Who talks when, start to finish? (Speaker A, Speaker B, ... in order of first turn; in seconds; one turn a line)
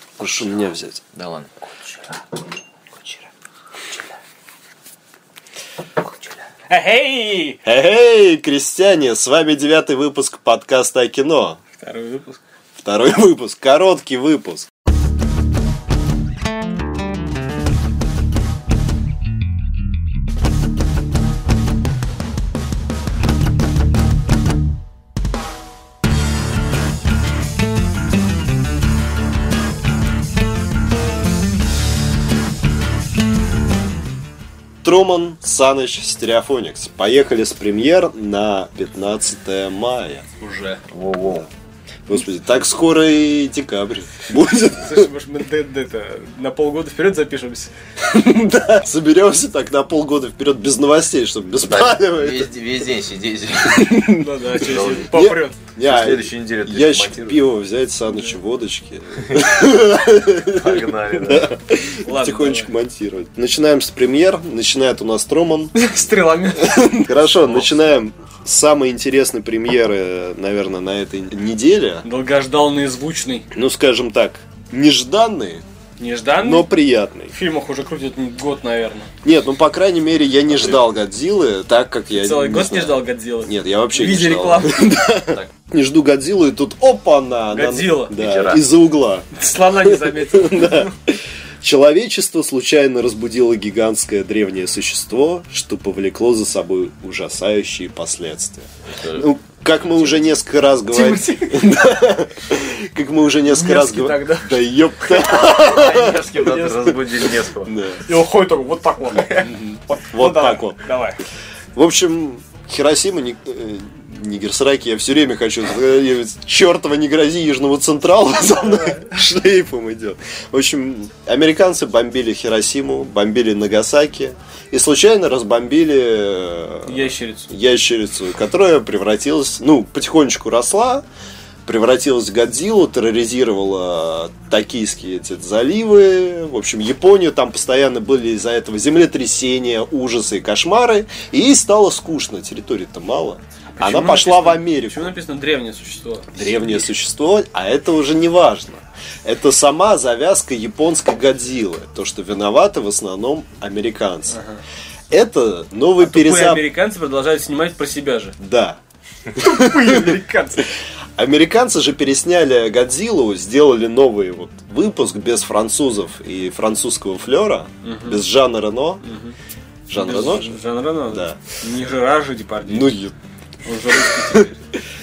Speaker A: 0.2-1.0
Speaker B: 1.1-2.2
Speaker B: 6.0-6.3
Speaker C: 6.7-7.6
Speaker A: 7.7-11.6
Speaker C: 11.8-12.4
Speaker A: 12.8-14.7
Speaker A: 34.8-40.2
Speaker C: 40.4-40.8
Speaker B: 40.9-41.5
Speaker A: 42.1-45.1
Speaker C: 44.8-47.7
Speaker A: 48.0-52.5
Speaker B: 51.7-54.0
Speaker A: 53.6-65.7
Speaker C: 54.1-55.6
Speaker B: 54.6-55.1
Speaker B: 55.8-57.4
Speaker B: 59.3-59.5
Speaker B: 60.3-61.5
Speaker C: 62.0-62.7
Speaker C: 65.7-67.7
Speaker A: 66.6-72.0
Speaker C: 72.0-73.5
Speaker A: 73.5-75.6
Speaker C: 76.0-76.7
Speaker A: 76.4-77.3
Speaker C: 77.3-79.1
Speaker A: 79.2-106.3
Speaker C: 82.2-84.9
Speaker C: 87.5-88.2
Speaker B: 88.1-88.7
Speaker C: 89.3-90.9
Speaker B: 98.9-99.3
Speaker C: 100.9-101.9
Speaker C: 103.5-105.3
Speaker B: 105.2-107.7
Speaker C: 106.4-106.9
Speaker A: 107.6-108.0
Speaker C: 108.1-111.2
Speaker A: 109.3-110.8
Speaker A: 111.8-131.1
Speaker C: 118.7-119.1
Speaker C: 126.9-127.5
Speaker A: 131.7-145.1
Speaker C: 143.8-146.8
Speaker A: 146.3-154.4
Speaker C: 154.3-154.6
Speaker A: 155.1-156.7
Speaker C: 156.0-158.3
Speaker A: 158.4-158.8
Speaker C: 159.3-160.7
Speaker A: 159.3-160.2
Speaker A: 161.2-169.0
Speaker C: 167.8-168.2
Speaker C: 169.0-169.3
Speaker A: 169.9-170.6
Speaker C: 169.9-172.9
Speaker A: 171.1-171.4
Speaker A: 172.7-173.2
Speaker C: 173.7-174.5
Speaker A: 173.9-174.6